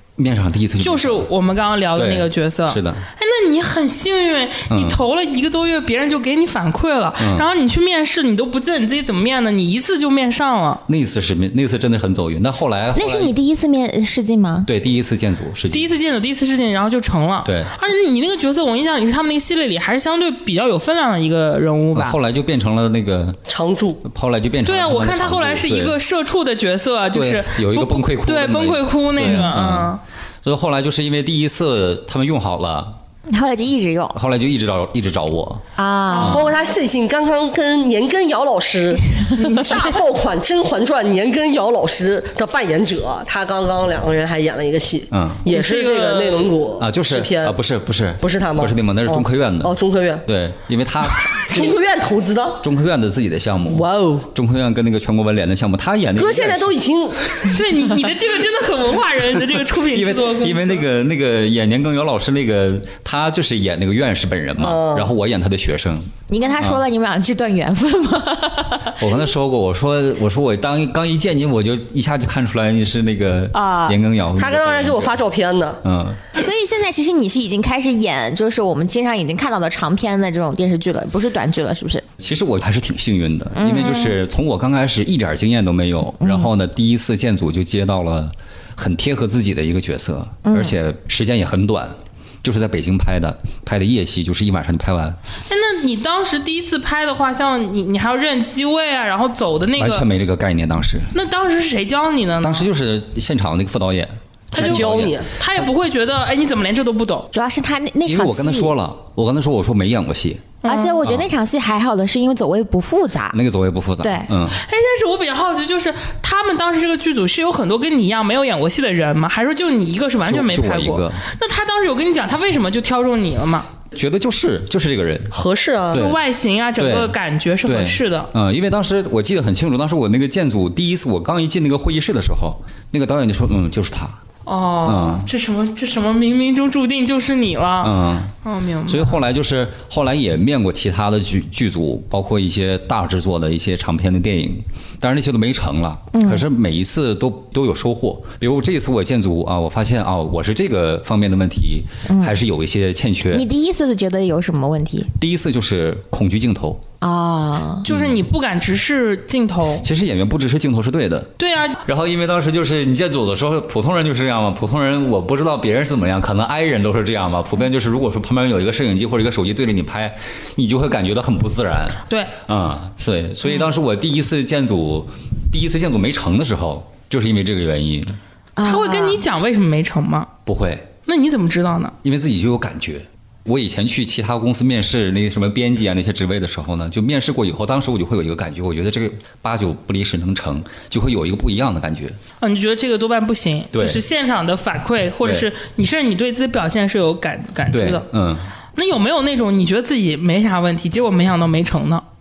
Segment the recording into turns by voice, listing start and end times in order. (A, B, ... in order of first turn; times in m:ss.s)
0:00.2-0:01.3 A
0:00.8-0:10.8 B
0:02.0-0:03.0 A
0:04.7-0:05.0 A
0:07.2-0:07.5 A
0:10.9-0:13.3 A
0:12.9-0:14.7 C
0:14.7-0:15.9 A
0:15.7-0:22.2 B
0:17.4-0:17.7 A
0:21.9-0:23.4 A
0:23.5-0:24.0 D
0:24.0-0:26.0 A
0:24.7-0:30.0 B
0:27.1-0:33.0 A
0:33.3-0:34.2 C
0:34.2-0:35.7 A
0:35.8-0:36.4 C
0:36.1-0:36.5 B
0:36.3-0:47.6 D
0:39.4-0:39.9 B
0:45.1-0:45.4 A
0:45.4-0:46.5 B
0:46.8-0:49.7 A
0:48.2-0:50.2 D
0:50.2-0:51.8 A
0:51.1-0:52.6 D
0:52.6-0:56.7 A
0:53.7-0:54.3 D
0:56.2-0:57.4 D
0:57.5-1:00.9 B
0:59.9-1:06.8 A
1:04.6-1:05.1 D
1:06.3-1:09.1 C
1:09.0-1:15.2 A
1:13.5-1:14.0 C
1:14.4-1:15.8 D
1:15.8-1:16.2 A
1:16.3-1:22.0 C
1:22.2-1:35.2 A
1:23.6-1:24.2 C
1:26.2-1:26.5 C
1:30.4-1:30.8 C
1:35.5-1:40.1 B
1:39.8-1:41.1 A
1:41.1-1:42.7 B
1:42.4-1:45.2 A
1:44.5-1:45.4 D
1:44.5-1:47.3 B
1:47.3-1:48.7 C
1:48.1-1:51.3 A
1:50.6-1:51.0 B
1:50.6-1:53.4 C
1:53.3-1:54.6 A
1:54.0-1:54.3 C
1:54.6-2:03.7 B
2:00.2-2:01.2 A
2:03.9-2:05.4 A
2:05.3-2:06.0 D
2:05.9-2:06.2 A
2:05.9-2:08.3 B
2:06.8-2:14.2 A
2:14.5-2:19.2 B
2:14.8-2:15.3 A
2:17.8-2:18.3 A
2:18.9-2:33.4 A
2:26.1-2:26.5 C
2:32.1-2:32.4 C
2:33.3-2:35.1 C
2:35.2-2:36.8 A
2:37.0-2:37.9 C
2:37.8-2:39.8 B
2:37.9-2:38.2 A
2:39.8-2:58.2 A
2:41.4-2:41.8 B
2:52.1-2:52.3 B
2:58.6-2:59.2 C
2:58.6-3:00.3 B
3:00.5-3:00.9 A
3:01.1-3:02.0 B
3:02.0-3:12.2 A
3:12.4-3:18.1 B
3:13.7-3:14.0 A
3:15.2-3:15.5 A
3:17.7-3:18.5 A
3:18.8-3:22.0 B